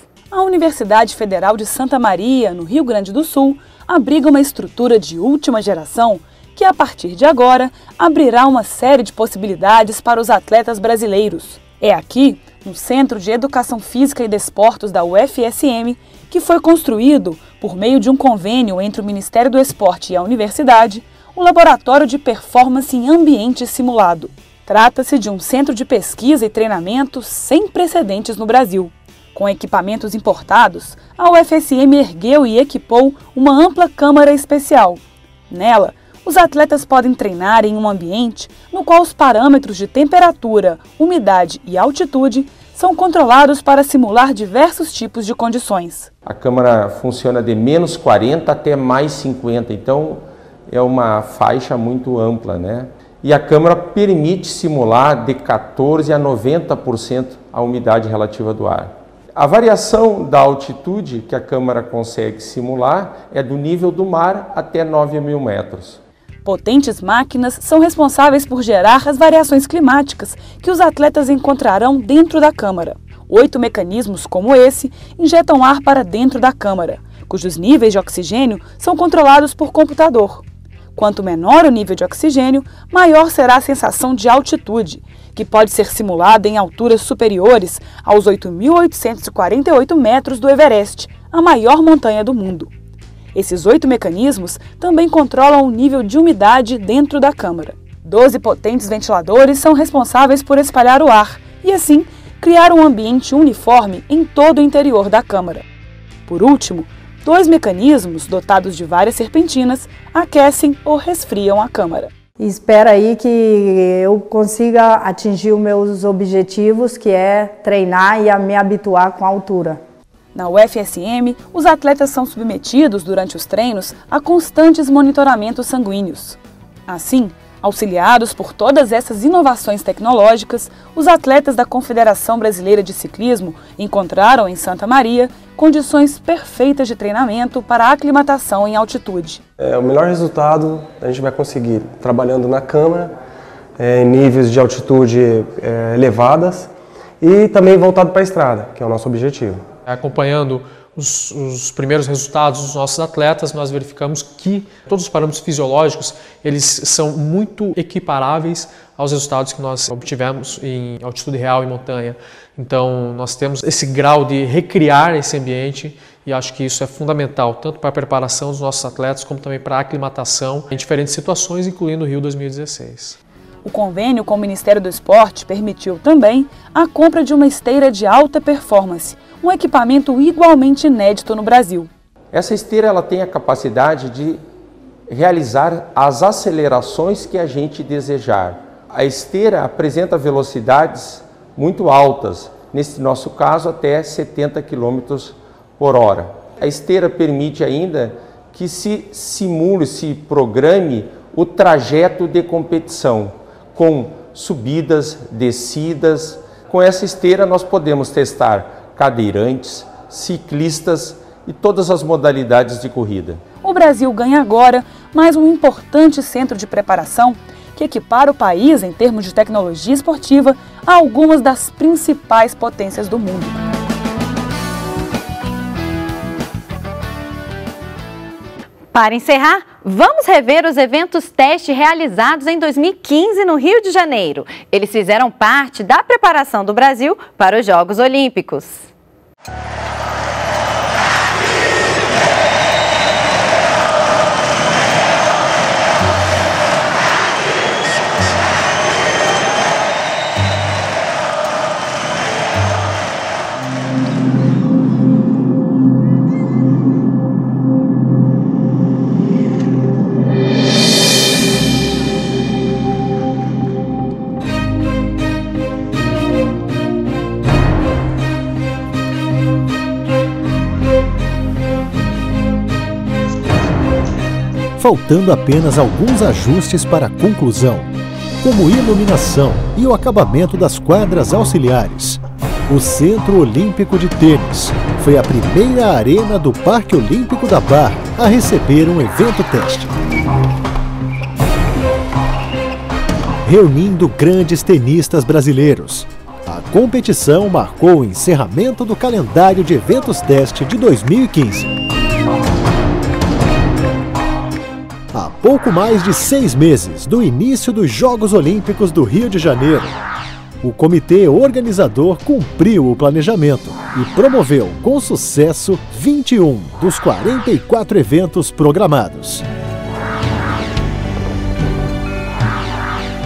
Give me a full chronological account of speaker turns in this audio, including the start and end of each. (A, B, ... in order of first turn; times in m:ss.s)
0:00.3-0:46.1 A
0:46.3-1:06.0 B
1:06.4-1:20.4 A
1:21.0-1:32.7 A
1:33.3-1:45.6 A
1:46.3-1:52.1 A
1:52.4-1:59.8 C
2:00.3-2:19.4 A
2:19.6-2:23.1 D
2:23.8-2:26.7 D
2:27.2-2:29.6 D
2:29.9-2:53.2 E
2:53.6-3:01.9 A
3:02.3-3:04.4 B
3:05.1-3:33.4 B
3:33.6-3:43.6 A
3:48.9-3:58.9 F
4:34.8-4:37.9 G
4:38.4-4:50.0 G
4:53.5-5:01.7 G
5:05.1-5:10.0 G
5:10.6-5:19.4 G